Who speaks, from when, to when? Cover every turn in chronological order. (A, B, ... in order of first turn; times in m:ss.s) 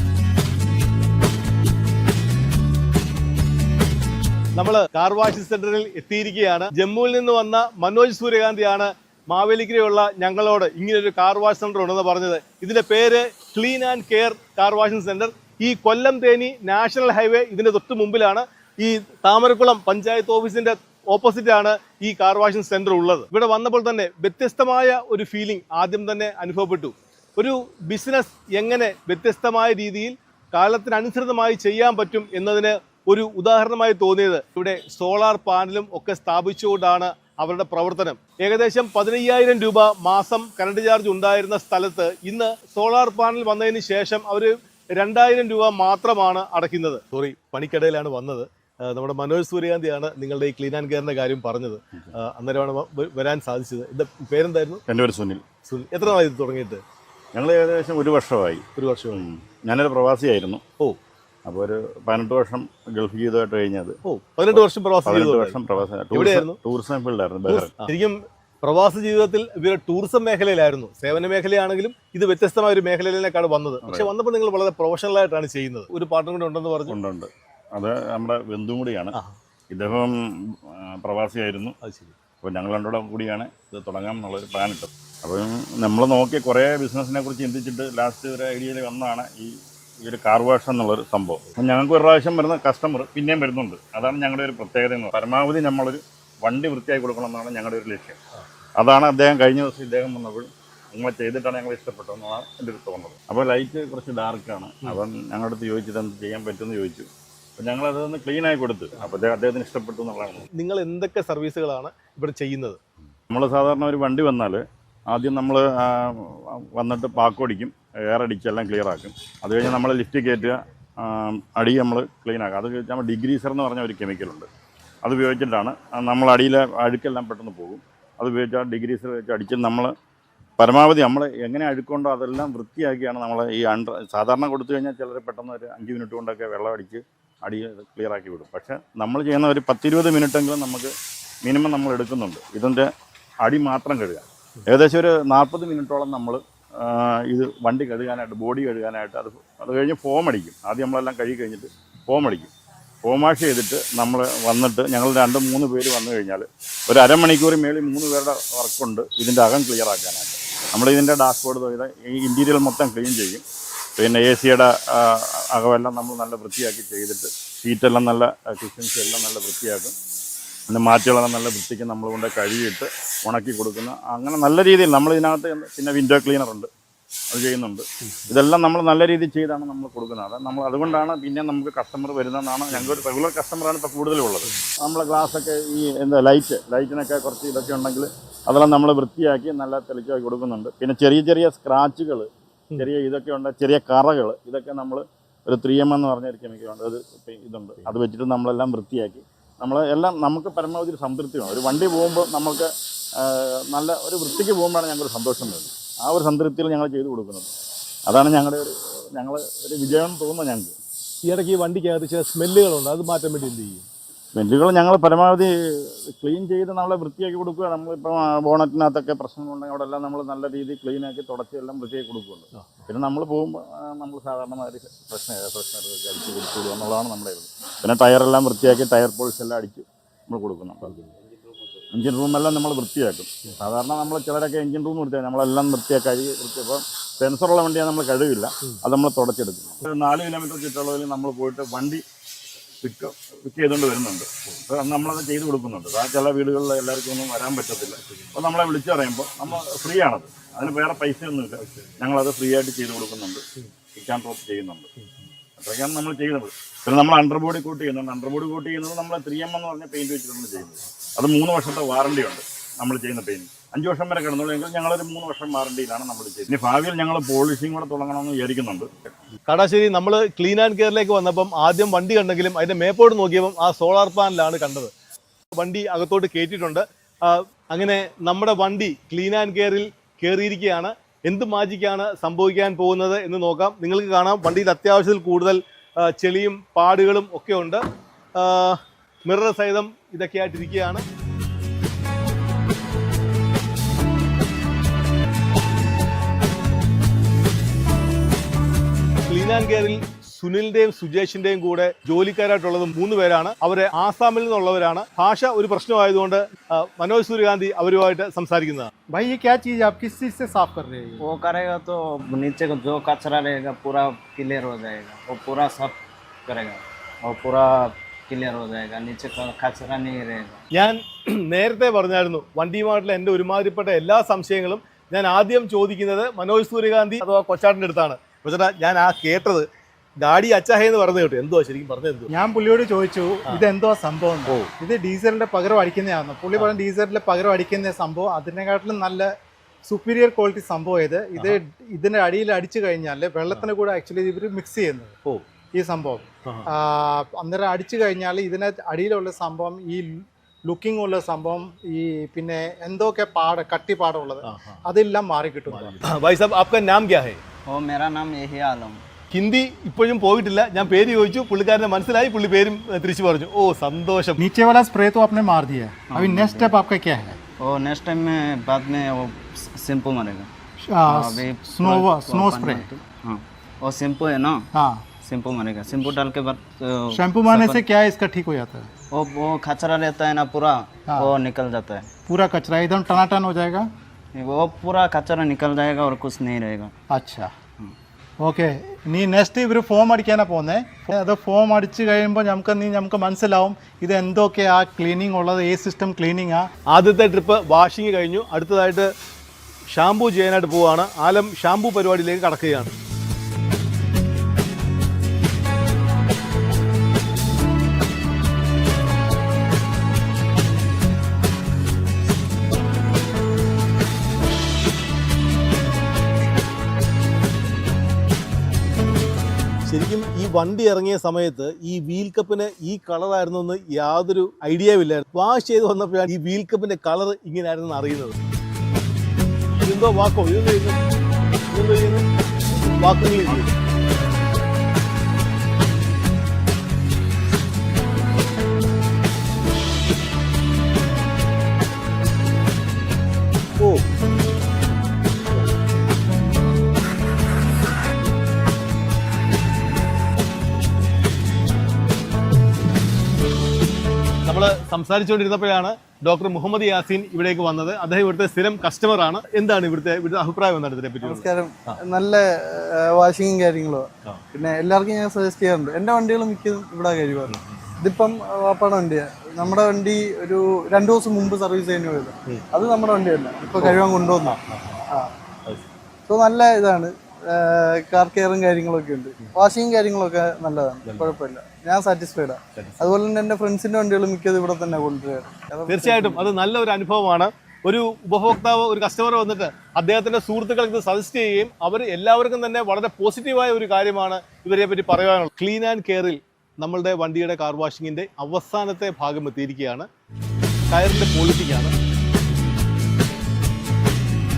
0:04.6-0:54.8 A
0:54.9-0:55.4 B
0:55.6-0:56.8 A
0:57.3-1:00.6 B
0:58.8-0:59.2 A
1:01.5-1:04.0 B
1:04.0-1:05.6 A
1:04.5-1:07.7 B
1:06.1-1:06.6 A
1:07.5-1:17.0 A
1:13.8-1:14.1 B
1:16.9-1:19.2 B
1:19.7-1:21.8 B
1:21.8-1:22.1 A
1:22.4-1:29.5 B
1:30.0-1:38.2 B
1:38.8-1:50.5 B
1:50.6-1:52.8 A
1:53.3-2:04.5 B
2:05.0-2:09.9 B
2:10.6-2:20.9 B
2:21.4-2:22.9 B
2:23.4-2:32.5 B
2:33.0-2:43.4 B
2:44.0-2:49.9 B
2:50.7-2:56.7 B
2:57.3-3:27.5 B
3:02.7-3:03.0 A
3:28.1-3:30.7 B
3:31.3-3:33.9 A
3:34.4-3:51.0 B
3:42.6-3:42.8 A
3:50.8-3:51.1 A
3:51.9-4:02.0 B
4:02.8-4:13.4 B
4:11.6-4:12.0 A
4:14.0-4:14.9 B
4:15.6-4:28.9 B
4:29.5-4:34.9 A
4:35.5-4:47.8 A
4:48.4-4:51.0 A
4:59.3-5:08.9 A
5:09.1-5:11.2 C
5:11.2-5:20.6 D
5:20.7-5:29.7 A
5:30.2-5:32.3 A
5:32.3-5:39.3 C
5:39.8-5:45.2 C
5:45.7-5:56.0 C
5:54.4-5:54.8 A
5:55.7-5:57.4 A
5:57.7-5:59.0 D
5:59.3-6:04.4 A
6:04.4-6:07.4 C
6:06.1-6:06.8 D
6:07.6-6:10.5 D
6:10.8-6:12.9 C
6:11.1-6:14.7 D
6:14.7-6:15.1 C
6:15.2-6:17.8 D
6:17.1-6:18.9 C
6:19.1-6:22.1 D
6:22.3-6:23.9 C
6:24.4-6:26.9 D
6:27.1-6:27.5 C
6:28.4-6:36.7 C
6:36.9-6:39.1 A
6:39.9-6:42.9 A
6:59.9-7:08.4 A
7:09.8-7:11.0 A
7:11.7-7:12.3 A
7:12.8-7:13.8 A
7:34.5-7:42.0 A
7:41.2-7:54.6 E
7:47.5-7:47.8 A
7:53.8-7:55.1 A
7:56.3-8:06.5 E
8:01.1-8:01.4 A
8:02.8-8:03.2 A
8:05.9-8:20.1 A
8:20.9-8:21.9 A